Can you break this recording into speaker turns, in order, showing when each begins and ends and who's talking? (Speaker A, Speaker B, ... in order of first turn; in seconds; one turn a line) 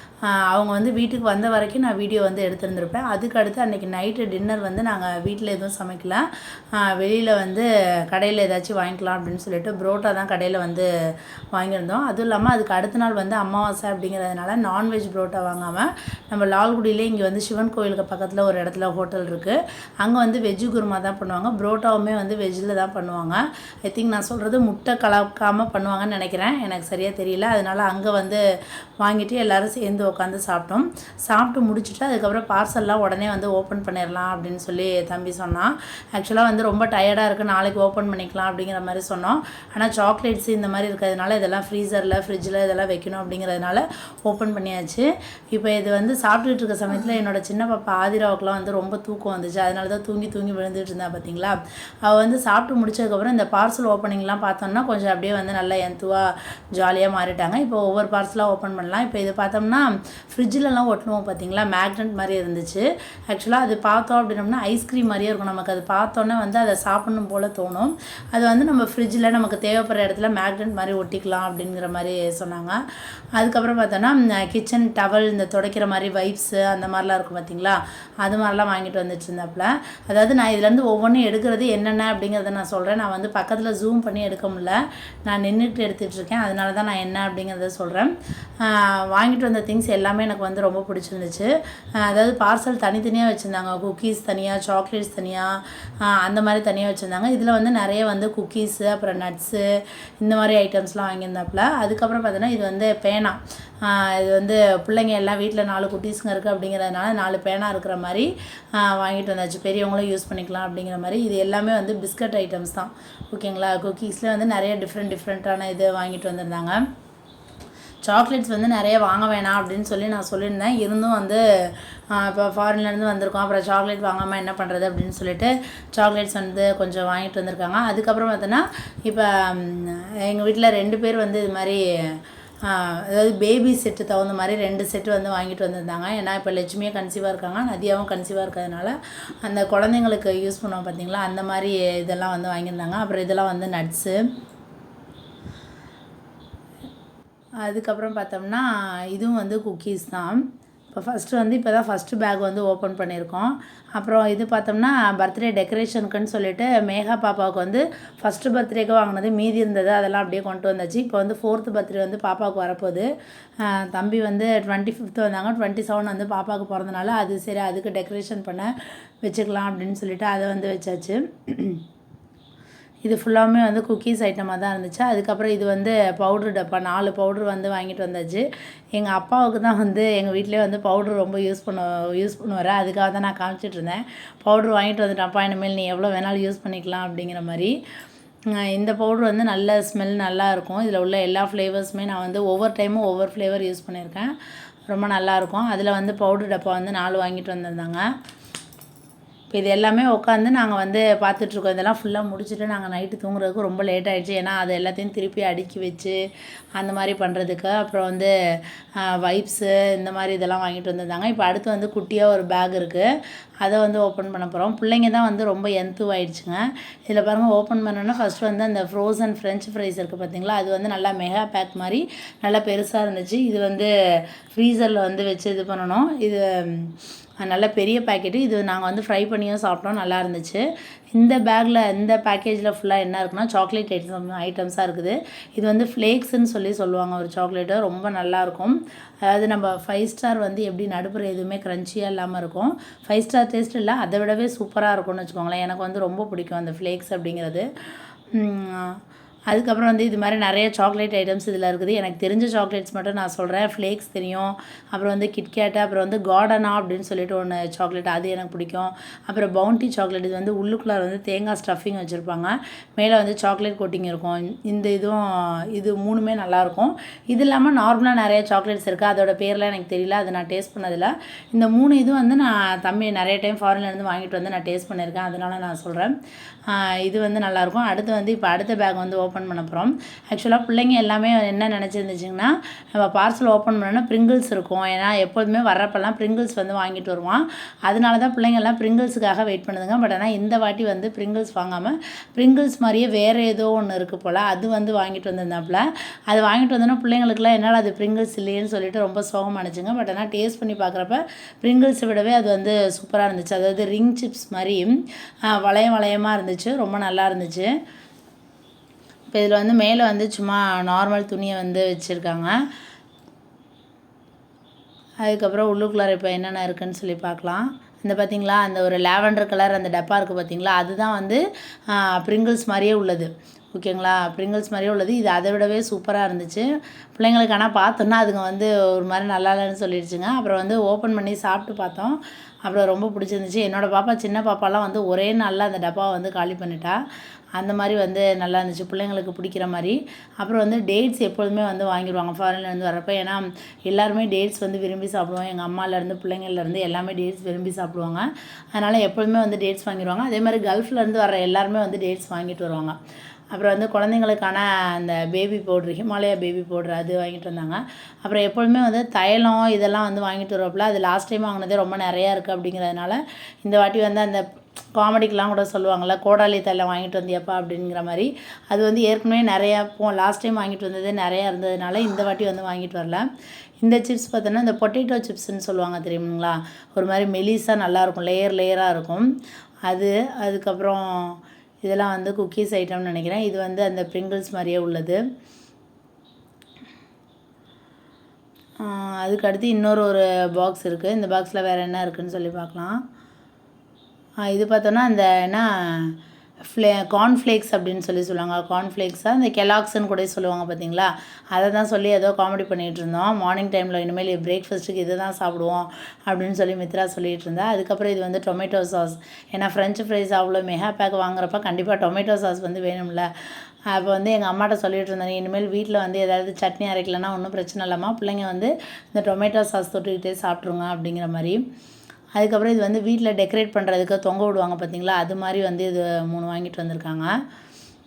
Speaker A: 0.3-10.9
Speaker A: 11.5-28.4
Speaker A: 29.0-72.8
Speaker A: 73.3-95.5
Speaker A: 96.0-99.6
Speaker A: 100.2-116.8
Speaker A: 118.0-144.2
Speaker A: 147.6-163.1
Speaker A: 163.6-171.8
Speaker A: 173.0-178.4
Speaker A: 178.9-187.7
Speaker A: 188.6-194.3
Speaker A: 194.9-198.0
Speaker A: 199.5-206.2
Speaker A: 206.8-208.3
Speaker A: 209.0-213.1
Speaker A: 213.6-223.9
Speaker A: 224.5-247.7
Speaker A: 248.3-276.1
Speaker A: 276.7-305.0
Speaker A: 305.5-307.7
Speaker A: 309.3-312.5
Speaker A: 315.2-337.0
Speaker A: 337.6-353.0
Speaker A: 353.5-364.4
Speaker A: 364.9-373.3
Speaker A: 373.8-379.2
Speaker A: 379.9-385.2
Speaker A: 388.8-393.0
Speaker A: 394.5-413.3
Speaker A: 413.9-421.6
Speaker A: 422.4-427.3